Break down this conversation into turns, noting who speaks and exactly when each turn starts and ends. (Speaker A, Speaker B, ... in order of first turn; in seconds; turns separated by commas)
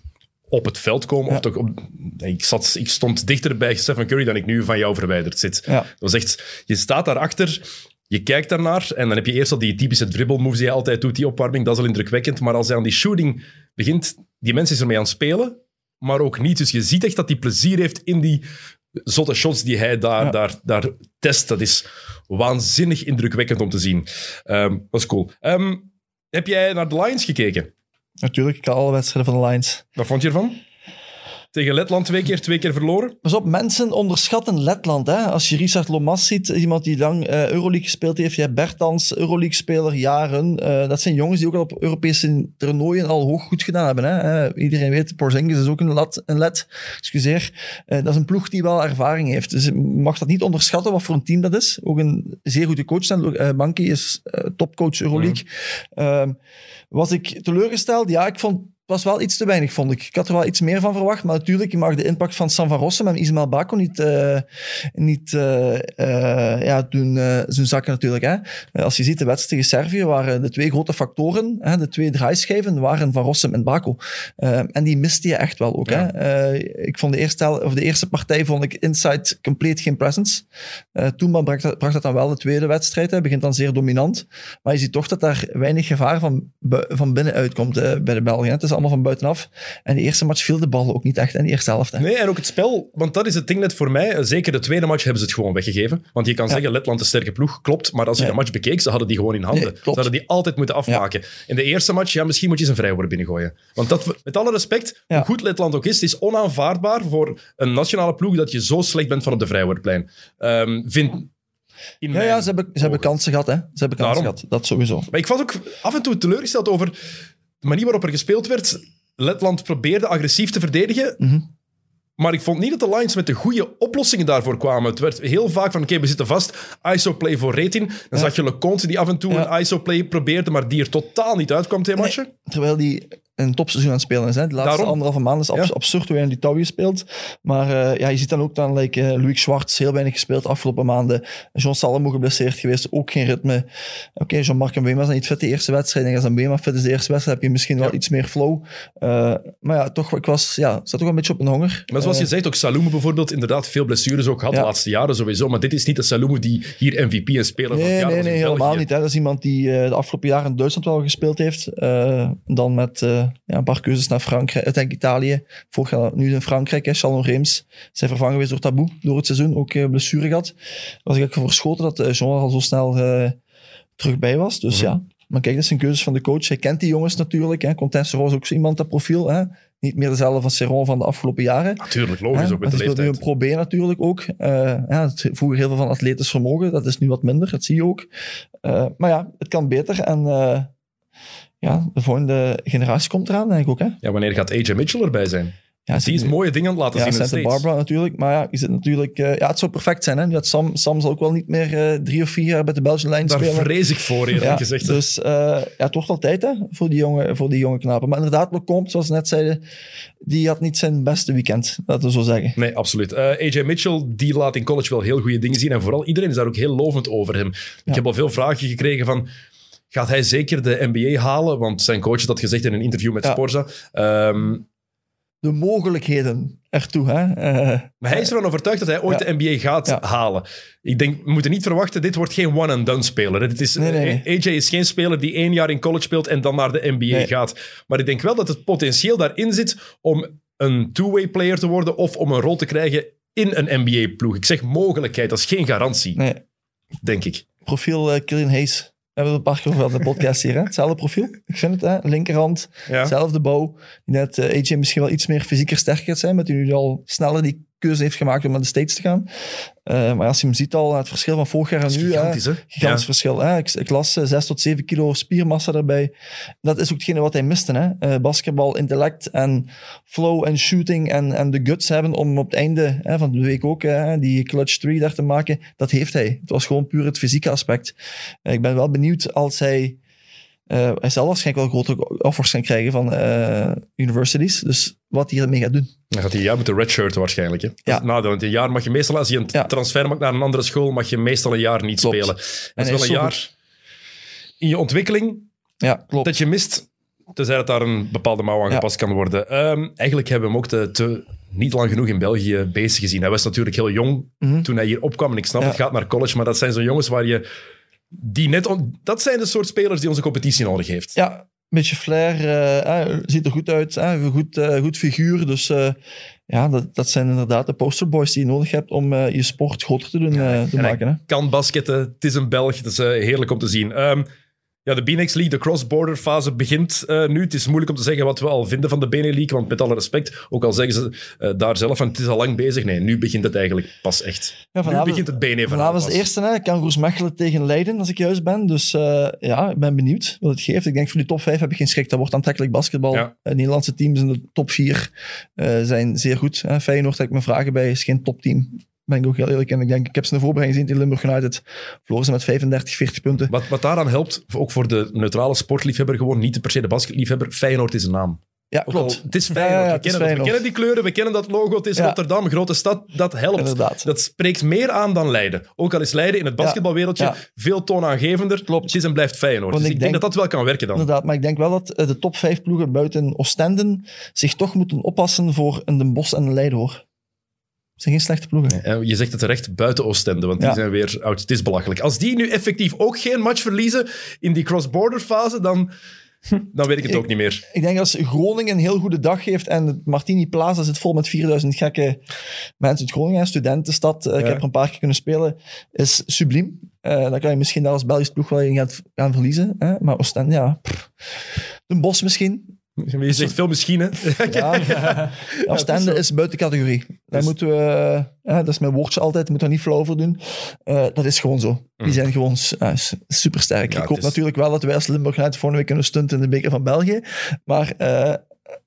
Speaker A: 0.5-18.4, Speaker A: 19.1-27.7, Speaker B: 28.2-29.8, Speaker A: 29.9-30.6, Speaker A: 31.5-33.1, Speaker B: 33.2-56.4, Speaker A: 55.1-55.4, Speaker B: 56.9-92.0, Speaker A: 92.0-111.3, Speaker B: 99.5-100.1, Speaker A: 112.0-113.1, Speaker B: 112.1-115.1, Speaker A: 114.0-114.3, Speaker A: 115.1-116.9, Speaker A: 117.6-121.2, Speaker B: 121.2-121.4, Speaker A: 122.2-132.3, Speaker B: 132.0-152.3, Speaker A: 134.6-135.0, Speaker A: 151.9-158.9, Speaker B: 157.7-170.5, Speaker B: 171.1-173.4, Speaker B: 174.0-188.1, Speaker A: 181.8-183.2, Speaker B: 188.6-190.7, Speaker B: 191.6-194.0, Speaker A: 194.0-197.6, Speaker B: 195.9-196.4, Speaker B: 196.9-203.7, Speaker A: 203.2-205.0, Speaker B: 204.3-209.6, Speaker B: 210.2-212.6, Speaker A: 212.6-219.3, Speaker A: 219.9-224.7, Speaker B: 225.4-228.3, Speaker A: 228.0-246.2, Speaker B: 233.8-234.2, Speaker B: 246.2-246.4, Speaker A: 247.0-247.4, Speaker B: 247.6-259.3, Speaker A: 252.9-253.1, Speaker B: 259.9-266.1, Speaker A: 261.9-263.1, Speaker B: 266.6-280.0, Speaker B: 280.7-285.9, Speaker A: 286.1-293.5, Speaker B: 292.0-293.4, Speaker A: 294.6-295.5, Speaker B: 295.8-296.3, Speaker A: 296.2-307.4, Speaker B: 304.4-304.7, Speaker A: 308.1-311.1, Speaker B: 311.1-316.0, Speaker B: 316.5-321.2, Speaker A: 320.3-324.3, Speaker A: 324.8-336.2, Speaker B: 334.7-353.5, Speaker A: 353.5-371.1, Speaker B: 358.7-360.6, Speaker B: 363.5-364.1, Speaker B: 366.6-367.4, Speaker B: 368.7-368.9, Speaker B: 369.7-370.3, Speaker B: 370.9-377.0, Speaker B: 378.0-378.8, Speaker A: 378.7-385.9, Speaker A: 386.6-387.6, Speaker B: 387.1-392.2, Speaker B: 392.8-401.1, Speaker B: 401.9-402.7, Speaker A: 403.0-406.2, Speaker B: 404.4-418.4, Speaker A: 413.9-414.3